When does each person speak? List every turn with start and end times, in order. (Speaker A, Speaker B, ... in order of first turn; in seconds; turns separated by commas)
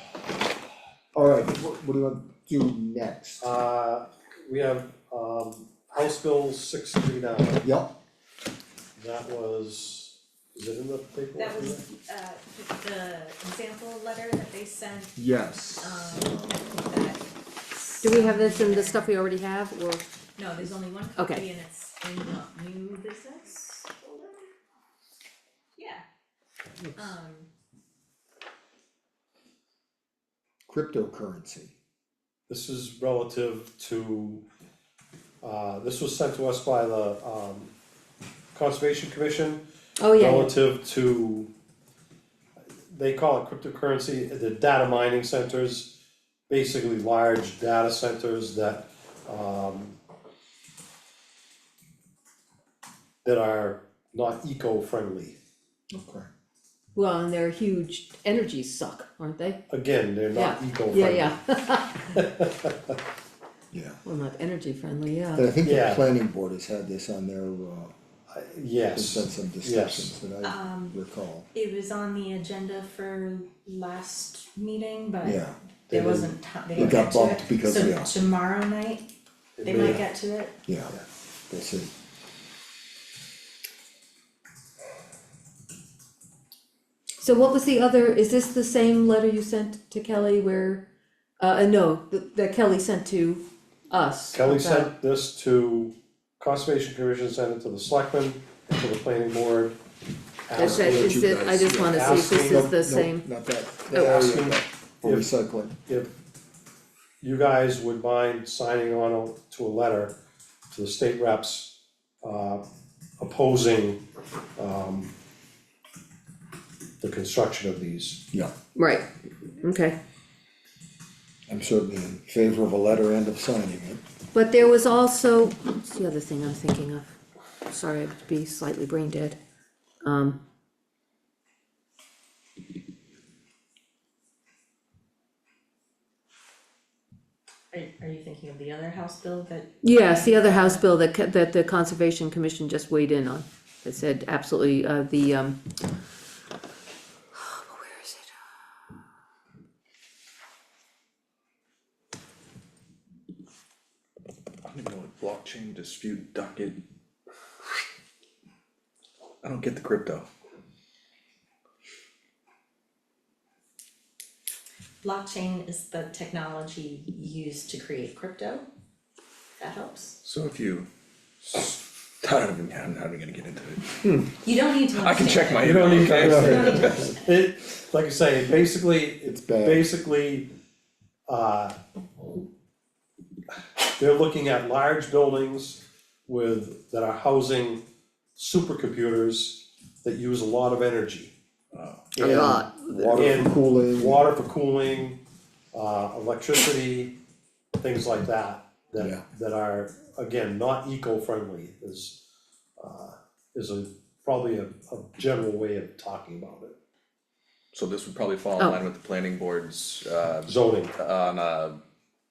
Speaker A: 1.1-3.4, Speaker B: 3.4-7.6, Speaker A: 7.6-7.9, Speaker B: 9.0-11.8, Speaker C: 11.4-19.1, Speaker A: 15.2-16.7, Speaker D: 18.0-20.1, Speaker C: 20.4-24.4, Speaker D: 21.2-21.5, Speaker C: 25.8-26.0, Speaker C: 26.9-27.5, Speaker A: 30.7-31.7, Speaker B: 32.5-34.4, Speaker B: 35.4-37.7, Speaker B: 38.5-39.6, Speaker D: 40.0-40.5, Speaker B: 40.1-41.5, Speaker B: 42.9-46.0, Speaker B: 46.5-50.0, Speaker B: 53.2-55.4, Speaker A: 55.9-56.3, Speaker D: 57.0-59.6, Speaker B: 59.7-61.4, Speaker D: 60.3-62.2, Speaker B: 62.1-63.0, Speaker A: 63.7-64.0, Speaker D: 64.0-65.5, Speaker A: 65.3-67.9, Speaker B: 65.6-66.1, Speaker B: 68.3-70.2, Speaker A: 69.0-71.5, Speaker C: 70.4-71.0, Speaker C: 71.5-79.1, Speaker A: 75.2-78.2, Speaker B: 79.6-80.0, Speaker C: 79.6-80.6, Speaker A: 79.8-80.0, Speaker A: 80.7-81.0, Speaker A: 81.5-81.9, Speaker D: 87.2-90.8, Speaker D: 91.4-94.9, Speaker B: 94.3-99.8, Speaker B: 100.5-102.7, Speaker D: 100.5-103.3, Speaker A: 100.6-105.7, Speaker B: 103.9-105.3, Speaker B: 105.8-106.1, Speaker B: 107.2-110.2, Speaker B: 110.7-112.6, Speaker B: 113.2-114.0, Speaker B: 114.6-115.1, Speaker B: 117.0-118.2, Speaker D: 118.8-119.1, Speaker D: 119.6-120.0, Speaker A: 121.5-124.0, Speaker D: 124.3-127.2, Speaker D: 127.7-129.4, Speaker D: 130.0-130.4, Speaker C: 137.7-140.8, Speaker D: 139.8-145.6, Speaker D: 147.3-148.3, Speaker E: 154.6-156.8, Speaker E: 159.4-160.3, Speaker C: 165.0-168.7, Speaker C: 169.6-170.2, Speaker E: 170.2-170.9, Speaker E: 171.4-174.2, Speaker C: 174.4-177.2, Speaker E: 174.9-177.1, Speaker B: 175.6-180.5, Speaker A: 176.2-177.0, Speaker A: 179.2-179.9, Speaker B: 181.3-181.8, Speaker B: 183.8-187.8, Speaker B: 188.3-191.3, Speaker E: 191.7-192.1, Speaker B: 192.1-195.2, Speaker A: 192.2-194.3, Speaker D: 192.2-193.2, Speaker B: 195.7-197.2, Speaker B: 197.8-202.2, Speaker B: 202.8-206.8, Speaker E: 207.7-211.8, Speaker B: 210.4-210.9